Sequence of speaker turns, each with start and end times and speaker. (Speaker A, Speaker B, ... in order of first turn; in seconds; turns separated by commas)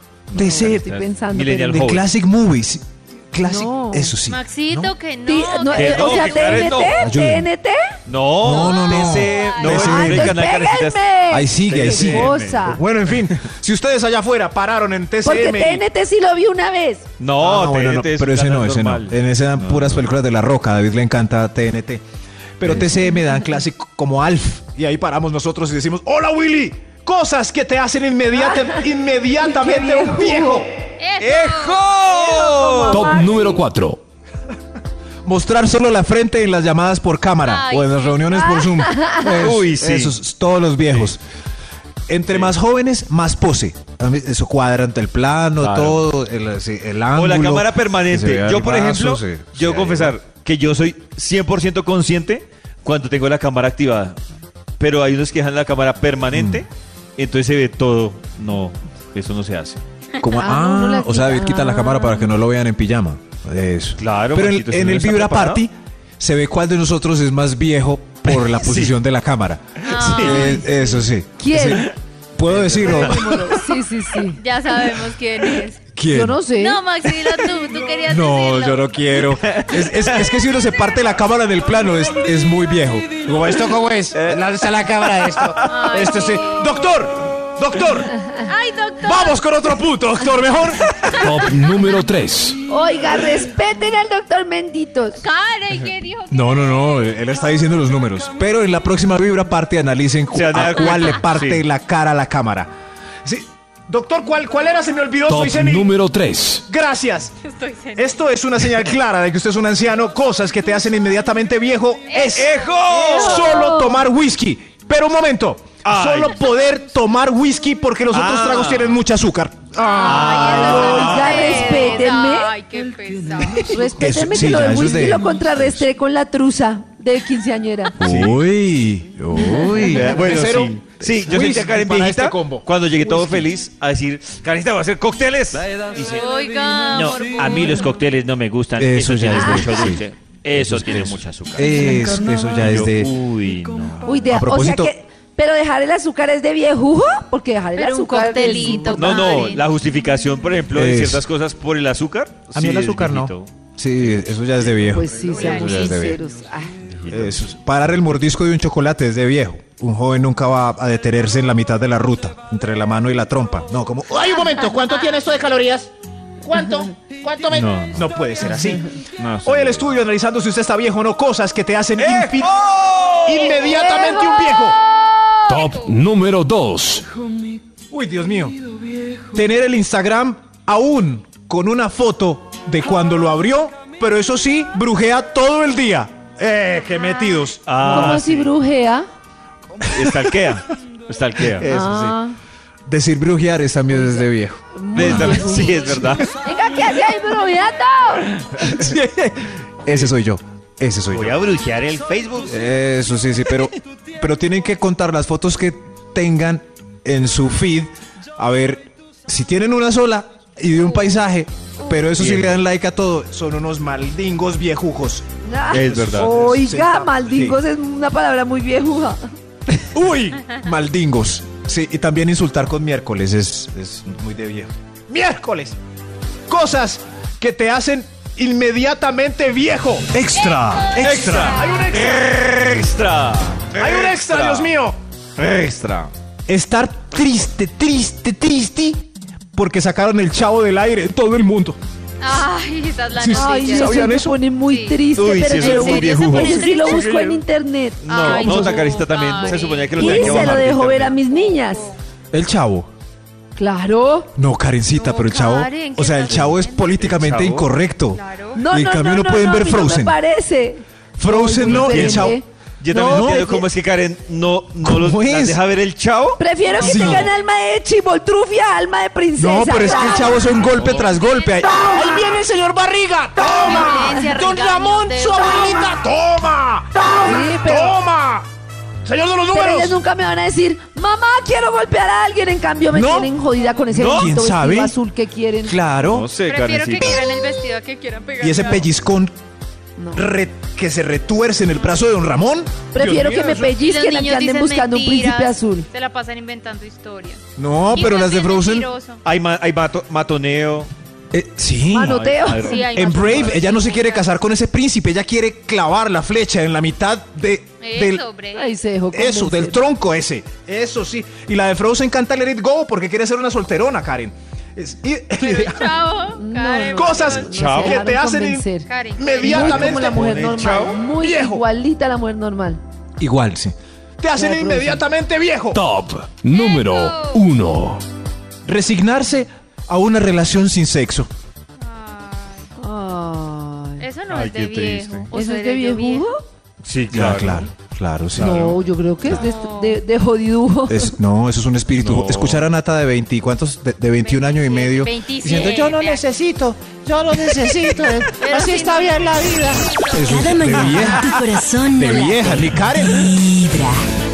Speaker A: 0.3-2.1, Speaker B: 0.3-0.9, Speaker C: 0.3-1.9, Speaker B: 1.7-4.9, Speaker C: 3.4-4.1, Speaker D: 4.3-6.7, Speaker C: 5.3-7.9, Speaker A: 5.7-7.0, Speaker B: 6.9-7.5, Speaker A: 8.1-11.1, Speaker B: 8.4-10.4, Speaker D: 8.5-9.9, Speaker C: 9.6-12.8, Speaker B: 11.3-15.8, Speaker A: 11.7-12.7, Speaker C: 15.2-17.1, Speaker A: 17.2-20.0, Speaker B: 17.4-22.0, Speaker B: 22.6-30.8, Speaker C: 29.4-30.6, Speaker D: 31.0-32.6, Speaker A: 31.2-33.2, Speaker C: 32.3-33.6, Speaker E: 32.9-34.0, Speaker B: 35.2-41.2, Speaker D: 37.4-38.6, Speaker C: 38.6-39.3, Speaker A: 39.4-40.1, Speaker B: 42.1-50.1, Speaker A: 45.6-46.0, Speaker A: 47.1-54.2, Speaker A: 54.8-59.8, Speaker B: 56.3-56.6, Speaker B: 60.2-73.2, Speaker C: 60.4-62.3, Speaker A: 64.0-65.6, Speaker A: 68.2-69.0, Speaker D: 69.8-70.7, Speaker A: 70.0-70.5, Speaker C: 71.4-71.9, Speaker A: 72.5-73.6, Speaker C: 72.7-74.4, Speaker D: 74.3-75.8, Speaker B: 75.9-76.4, Speaker C: 76.1-76.8, Speaker D: 76.5-79.0, Speaker B: 78.0-84.2, Speaker A: 79.3-80.3, Speaker F: 83.6-86.4, Speaker A: 84.1-84.5, Speaker A: 85.1-85.9, Speaker D: 85.6-86.9, Speaker B: 85.9-88.1, Speaker D: 88.3-89.4, Speaker B: 89.0-91.2, Speaker D: 91.0-91.5, Speaker E: 91.2-92.6, Speaker C: 92.7-95.2, Speaker D: 95.2-97.0, Speaker B: 96.3-102.7, Speaker A: 100.3-101.6, Speaker B: 103.2-105.9, Speaker E: 105.3-106.6, Speaker B: 106.7-107.3, Speaker D: 107.4-108.1, Speaker B: 107.9-121.1, Speaker D: 112.1-113.0, Speaker A: 112.2-113.6, Speaker C: 112.9-114.0, Speaker A: 115.8-116.4, Speaker A: 118.1-119.0, Speaker A: 120.0-122.1, Speaker C: 120.0-122.5, Speaker D: 120.0-123.8, Speaker C: 123.6-127.9, Speaker B: 123.7-125.9, Speaker B: 128.0-133.4, Speaker A: 128.0-128.4, Speaker C: 129.3-130.1, Speaker A: 129.8-136.3, Speaker D: 136.1-137.7, Speaker A: 136.9-144.1, Speaker B: 138.8-143.2, Speaker C: 139.3-139.9, Speaker C: 144.1-149.4, Speaker B: 144.2-144.9, Speaker D: 147.7-149.7, Speaker A: 148.9-153.5, Speaker B: 150.7-151.2, Speaker B: 152.5-156.2, Speaker C: 154.8-156.7, Speaker D: 155.2-155.9, Speaker A: 156.9-157.5, Speaker B: 157.1-164.3, Speaker F: 164.1-165.9, Speaker F: 166.4-167.7, Speaker A: 167.5-168.1, Speaker B: 167.9-168.8, Speaker A: 169.2-169.9, Speaker B: 169.4-172.5, Speaker A: 172.0-174.0, Speaker B: 173.2-174.8, Speaker C: 173.6-174.7, Speaker D: 175.0-175.9, Speaker E: 175.5-177.0, Speaker B: 177.9-178.6, Speaker B: 179.3-188.2, Speaker A: 187.7-188.5, Speaker C: 187.8-189.0, Speaker A: 189.8-192.0, Speaker C: 191.6-192.4, Speaker B: 191.7-192.1, Speaker B: 192.9-195.5, Speaker C: 194.7-198.3, Speaker A: 194.9-196.3, Speaker B: 198.6-201.3, Speaker A: 199.8-200.1, Speaker A: 201.1-202.6, Speaker B: 202.5-215.2, Speaker A: 212.1-212.6, Speaker C: 215.4-219.2, Speaker A: 215.7-216.3, Speaker B: 215.8-217.6, Speaker B: 219.9-225.8, Speaker B: 226.5-232.3, Speaker D: 230.3-231.9, Speaker A: 231.0-234.7, Speaker B: 233.8-235.0, Speaker A: 235.4-236.1, Speaker B: 236.5-241.8, Speaker D: 242.2-244.0, Speaker B: 243.2-244.4, Speaker C: 243.3-248.9, Speaker D: 244.6-247.3, Speaker A: 245.1-247.4, Speaker A: 248.0-251.1, Speaker D: 248.1-250.1, Speaker C: 249.9-251.9, Speaker B: 250.1-250.5, Speaker D: 251.2-252.0, Speaker B: 252.3-252.9, Speaker C: 253.5-254.3, Speaker B: 254.3-260.2, Speaker D: 254.9-257.0, Speaker A: 256.2-257.7, Speaker D: 258.1-258.6, Speaker C: 258.5-263.6, Speaker B: 261.2-262.4, Speaker A: 261.6-267.3, Speaker B: 262.9-263.5, Speaker B: 264.8-265.6, Speaker C: 266.4-270.5, Speaker B: 266.7-267.3, Speaker B: 269.4-272.4, Speaker A: 270.7-271.1, Speaker F: 271.9-278.4, Speaker B: 273.1-273.9, Speaker D: 273.5-275.6, Speaker C: 274.0-274.3, Speaker B: 276.3-276.7, Speaker C: 277.2-278.0, Speaker B: 277.2-278.4, Speaker B: 279.1-279.9, Speaker F: 279.2-279.5, Speaker C: 279.5-285.8, Speaker B: 282.9-283.3, Speaker A: 283.9-284.3, Speaker B: 284.0-285.0, Speaker B: 285.6-286.3, Speaker A: 286.0-287.2, Speaker D: 286.4-288.9, Speaker B: 288.4-289.3, Speaker C: 290.0-290.2, Speaker B: 290.1-293.7, Speaker C: 292.9-295.9, Speaker D: 293.8-297.4, Speaker B: 297.6-298.9, Speaker D: 297.9-299.2, Speaker A: 299.2-300.9, Speaker B: 301.3-302.2, Speaker C: 301.9-302.9, Speaker A: 302.0-303.6, Speaker D: 302.5-304.3, Speaker B: 302.9-308.2, Speaker D: 307.8-308.8, Speaker C: 308.5-309.8, Speaker B: 309.1-316.1, Speaker D: 315.4-317.6, Speaker C: 316.4-318.9, Speaker B: 316.9-320.4, Speaker A: 317.5-318.0, Speaker D: 318.8-319.7, Speaker C: 319.4-322.8, Speaker A: 319.5-321.0, Speaker B: 321.1-321.6, Speaker B: 323.2-325.8, Speaker C: 324.3-325.0, Speaker E: 325.7-328.0, Speaker D: 326.5-327.5, Speaker B: 328.6-331.3, Speaker D: 331.8-332.7, Speaker C: 332.8-334.1, Speaker D: 334.0-336.3, Speaker A: 334.3-335.3, Speaker C: 335.3-336.4, Speaker A: 336.8-337.7, Speaker B: 337.1-338.8, Speaker A: 338.3-339.3, Speaker C: 338.3-341.1, Speaker D: 339.3-340.0, Speaker B: 340.9-348.4, Speaker A: 341.9-342.6, Speaker D: 344.2-346.3, Speaker F: 345.7-350.0, Speaker D: 348.4-349.2, Speaker B: 350.1-351.3, Speaker G: 350.2-354.0, Speaker B: 351.9-353.2